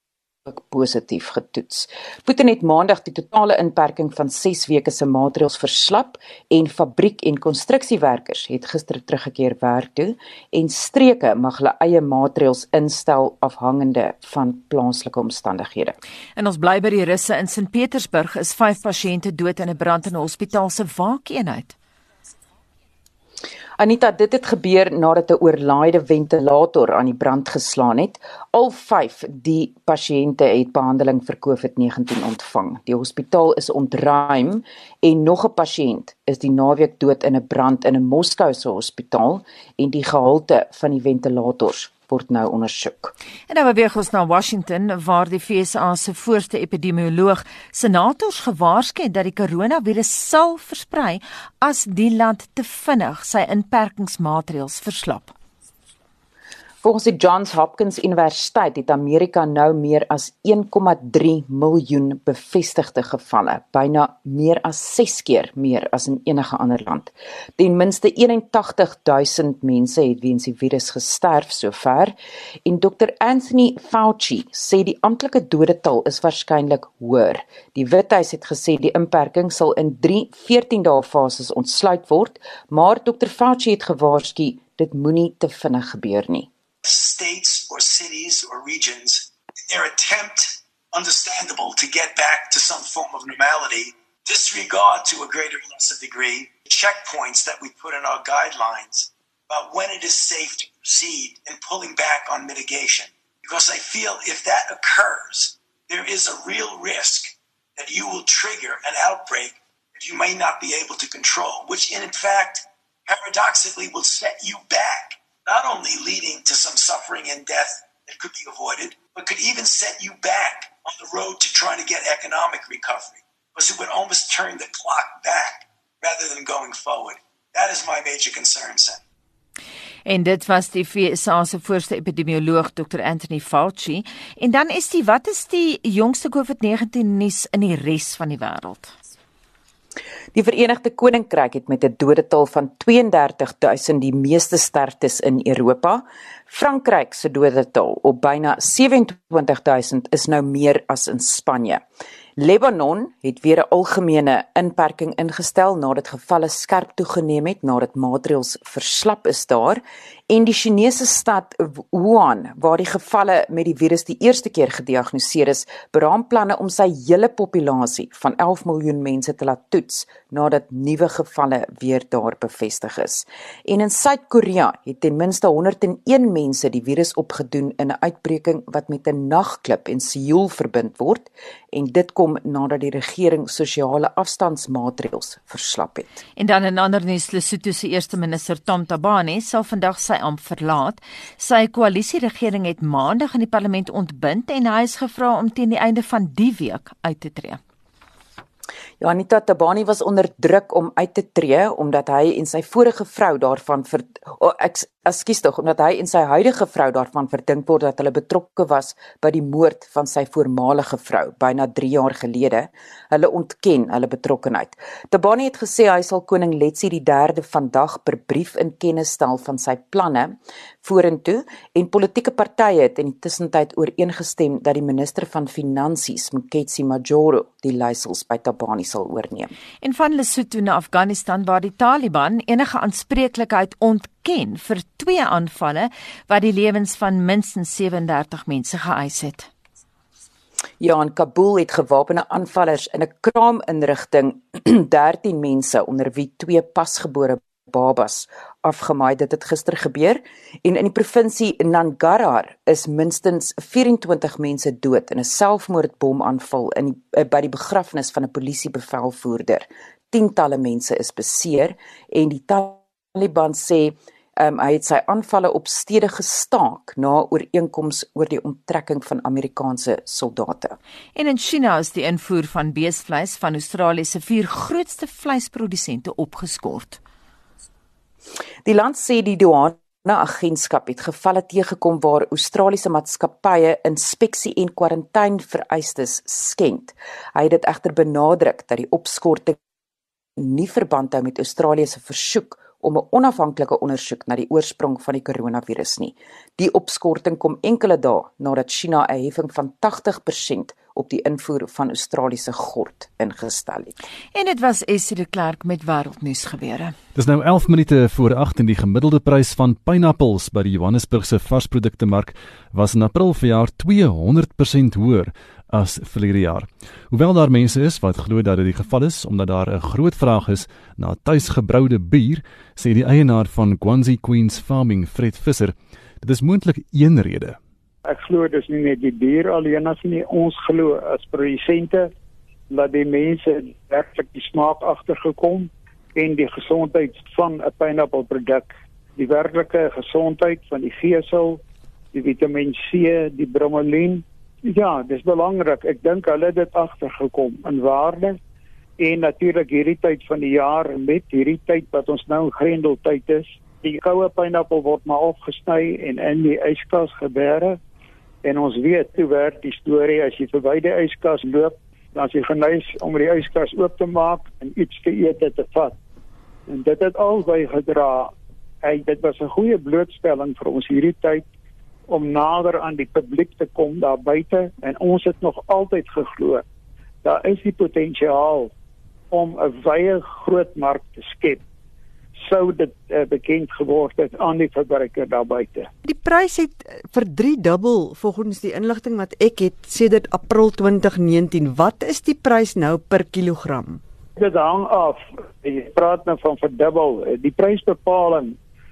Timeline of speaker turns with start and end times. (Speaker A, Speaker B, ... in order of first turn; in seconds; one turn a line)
Speaker A: 0.6-15.9
Speaker B: 16.4-21.7
Speaker A: 23.8-43.1
Speaker B: 43.5-55.3
Speaker A: 56.8-72.2
Speaker A: 72.7-86.5
Speaker C: 86.9-129.0
Speaker B: 130.1-138.9
Speaker A: 140.3-151.8
Speaker A: 152.4-186.2
Speaker B: 186.4-197.6
Speaker A: 199.0-229.5
Speaker B: 229.8-239.5
Speaker A: 240.8-270.8
Speaker B: 271.1-277.0
Speaker A: 278.7-289.6
Speaker A: 290.4-303.9
Speaker B: 304.4-306.9
Speaker D: 307.2-327.6
Speaker E: 328.1-332.1
Speaker E: 332.7-341.6
Speaker E: 342.1-348.4
Speaker E: 349.0-357.8
Speaker E: 358.4-365.9
Speaker E: 366.7-368.3
Speaker E: 368.8-371.4
Speaker E: 372.1-376.6
Speaker E: 377.2-378.7
Speaker E: 379.3-381.6
Speaker E: 382.4-385.9
Speaker F: 386.1-394.0
Speaker E: 394.4-398.6